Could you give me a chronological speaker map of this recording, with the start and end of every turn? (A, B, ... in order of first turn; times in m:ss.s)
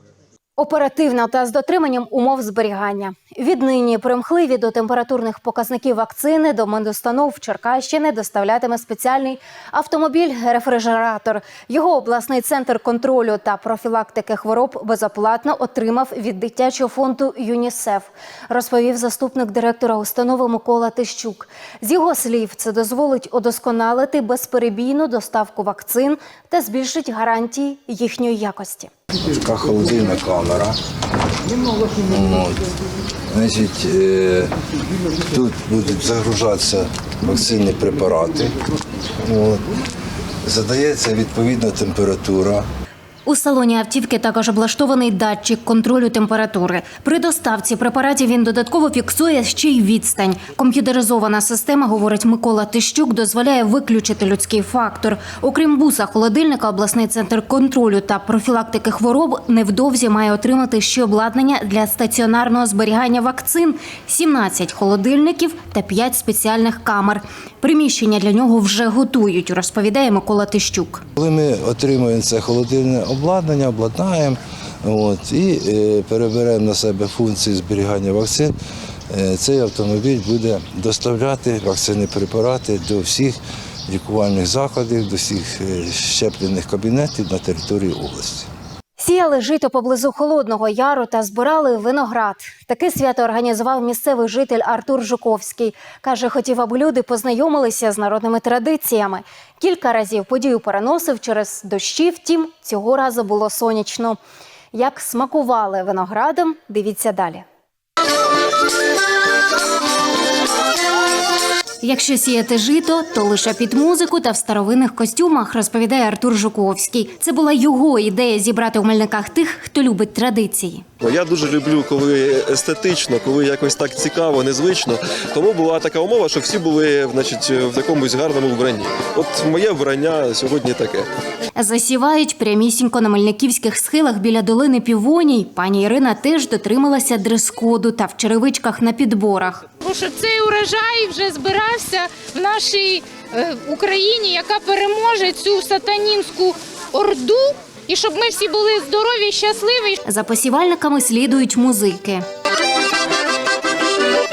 0:00.6-0:28.9 A
0:29.4-0:30.8 B
0:32.0-0:32.6 B
0:33.3-0:34.5 B
0:35.3-0:38.5 B
0:39.2-0:39.7 B
0:40.4-0:42.6 B
0:43.2-1:11.0 A
1:11.2-1:18.5 B
1:19.1-1:28.5 B
1:29.0-1:44.2 A
1:44.7-1:47.4 A
1:51.8-2:00.8 A
2:01.0-2:11.1 C
2:11.6-2:19.6 A
2:19.8-2:30.0 D
2:30.0-2:32.2 A